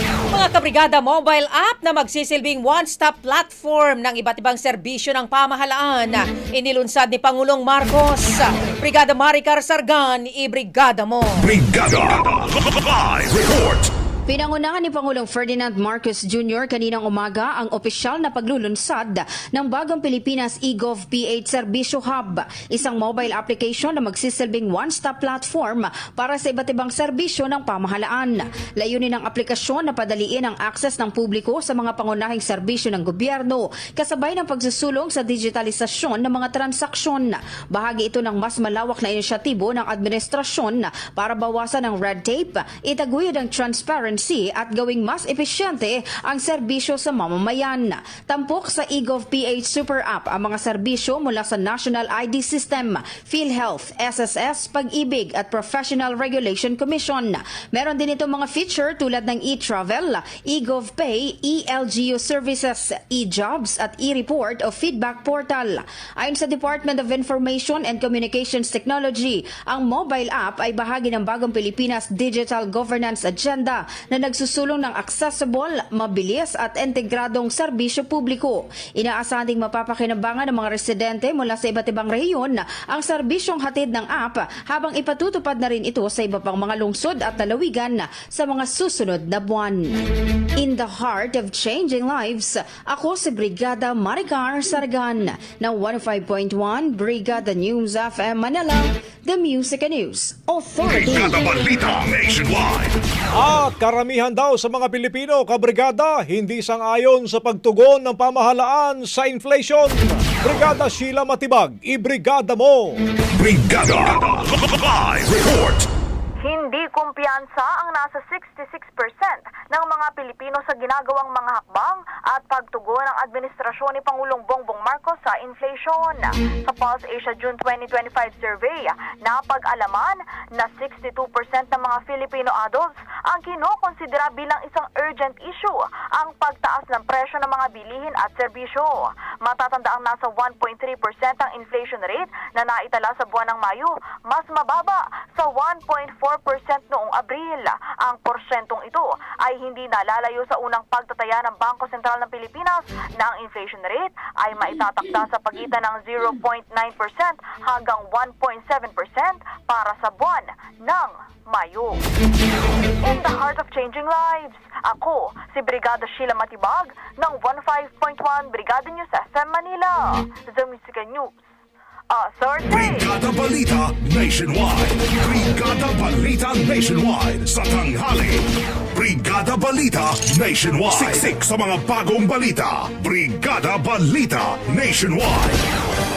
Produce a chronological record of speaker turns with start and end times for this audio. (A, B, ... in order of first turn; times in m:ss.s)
0:00.3-0:11.5 A
0:11.4-0:13.9 B
0:14.3-1:30.0 C
1:30.6-1:41.7 C
1:40.9-1:43.0 B
1:43.3-1:53.0 D
1:53.3-1:55.8 B
1:56.4-2:42.0 E
2:43.0-2:51.5 E
2:52.1-2:53.1 E
2:52.7-3:05.6 B